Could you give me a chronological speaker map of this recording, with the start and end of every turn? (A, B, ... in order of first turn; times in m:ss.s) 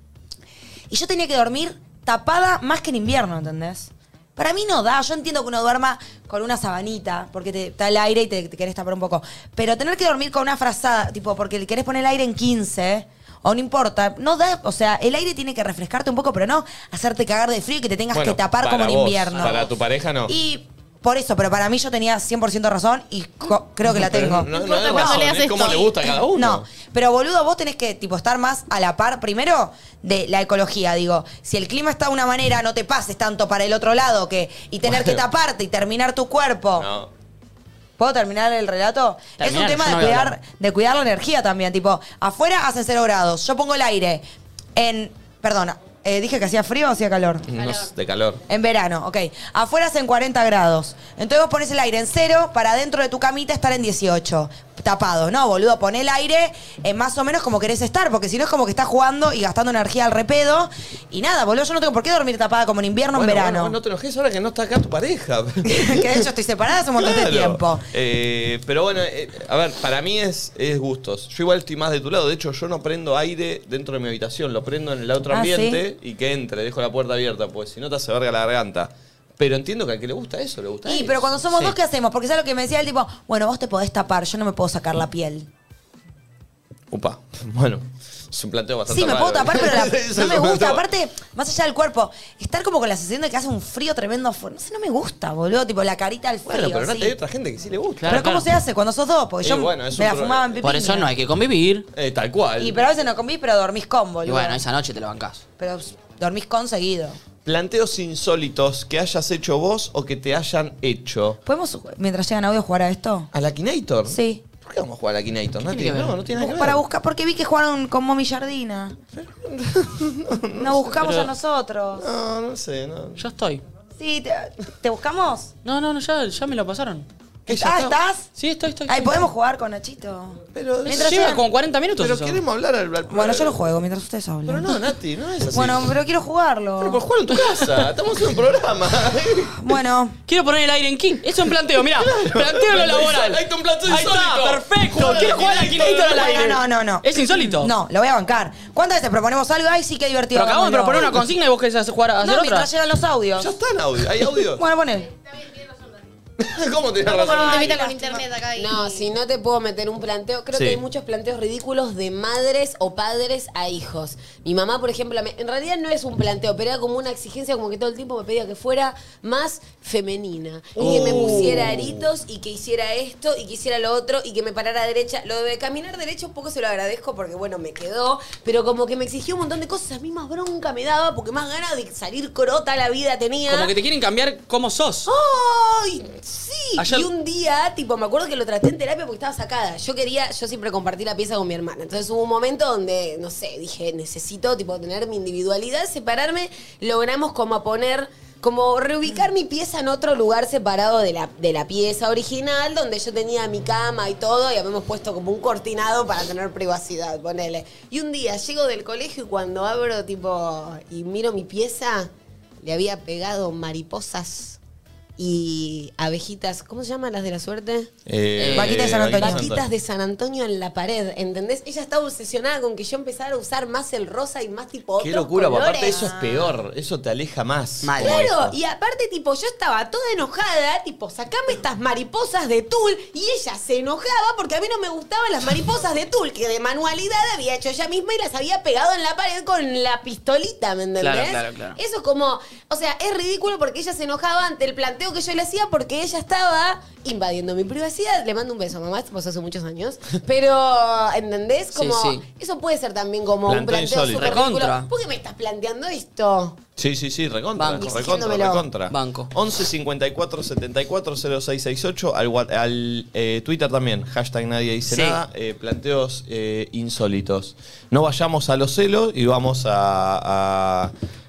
0:00.9-0:19.7 A
0:18.1-0:20.3 B
0:20.3-0:25.3 A
0:23.8-0:26.6 B
0:24.5-0:26.0 C
0:26.3-0:36.9 A
0:34.9-0:35.2 B
0:36.8-0:37.1 B
0:38.0-0:44.2 A
0:39.4-0:40.4 D
0:44.7-0:47.4 A
0:47.5-0:48.4 B
0:48.5-1:03.8 A
1:03.1-1:06.2 B
1:05.6-1:07.8 A
1:07.0-1:21.3 B
1:15.3-1:15.8 A
1:20.8-1:25.5 A
1:26.9-1:30.8 B
1:28.9-1:37.2 A
1:36.4-1:38.3 B
1:38.0-1:38.5 D
1:38.1-1:41.1 A
1:39.4-1:40.6 B
1:40.6-1:41.8 D
1:41.9-1:42.8 B
1:42.6-1:44.6 A
1:44.2-1:45.4 D
1:45.6-1:47.2 A
1:47.4-1:51.4 B
1:51.4-1:53.3 A
1:53.3-1:56.8 B
1:54.1-1:54.4 A
1:55.6-1:56.2 D
1:56.4-1:59.0 A
1:59.1-2:01.0 B
2:00.6-2:02.1 A
2:01.0-2:01.3 D
2:02.0-2:03.2 B
2:03.2-2:03.6 D
2:04.0-2:05.5 A
2:05.6-2:07.1 D
2:07.4-2:08.0 B
2:07.5-2:08.3 A
2:08.4-2:09.3 D
2:08.9-2:11.4 A
2:10.5-2:11.3 B
2:10.8-2:12.4 D
2:12.0-2:13.6 B
2:13.1-2:14.7 A
2:14.4-2:16.0 B
2:15.5-2:17.0 A
2:16.8-2:19.6 B
2:17.4-2:17.7 D
2:19.6-2:20.2 A
2:20.3-2:27.7 D
2:22.0-2:26.5 B
2:26.0-2:31.2 A
2:30.3-2:32.7 D
2:32.2-2:33.5 A
2:33.4-2:34.6 B
2:34.4-2:35.1 A
2:35.2-2:36.0 C
2:36.4-2:37.8 B
2:37.0-2:39.1 C
2:37.2-2:38.2 A
2:38.5-3:03.7 E
2:40.5-2:40.8 B
2:50.8-2:52.1 B
2:50.8-2:51.6 D
3:03.5-3:05.1 D
3:05.1-3:32.1 E
3:06.8-3:07.1 D
3:32.6-3:34.6 E
3:35.2-3:37.9 E
3:38.0-3:39.7 B
3:38.4-3:38.8 D
3:38.5-3:39.4 A
3:39.1-3:46.0 E
3:45.0-3:48.6 B
3:45.8-3:46.5 A
3:47.8-3:48.3 D
3:48.0-4:16.6 E
4:01.0-4:01.8 D
4:11.7-4:12.2 D
4:13.4-4:14.4 B
4:14.1-4:14.9 D
4:16.8-4:30.9 B
4:17.6-4:18.3 D
4:17.8-4:18.6 E
4:18.9-4:19.3 D
4:24.9-4:25.2 D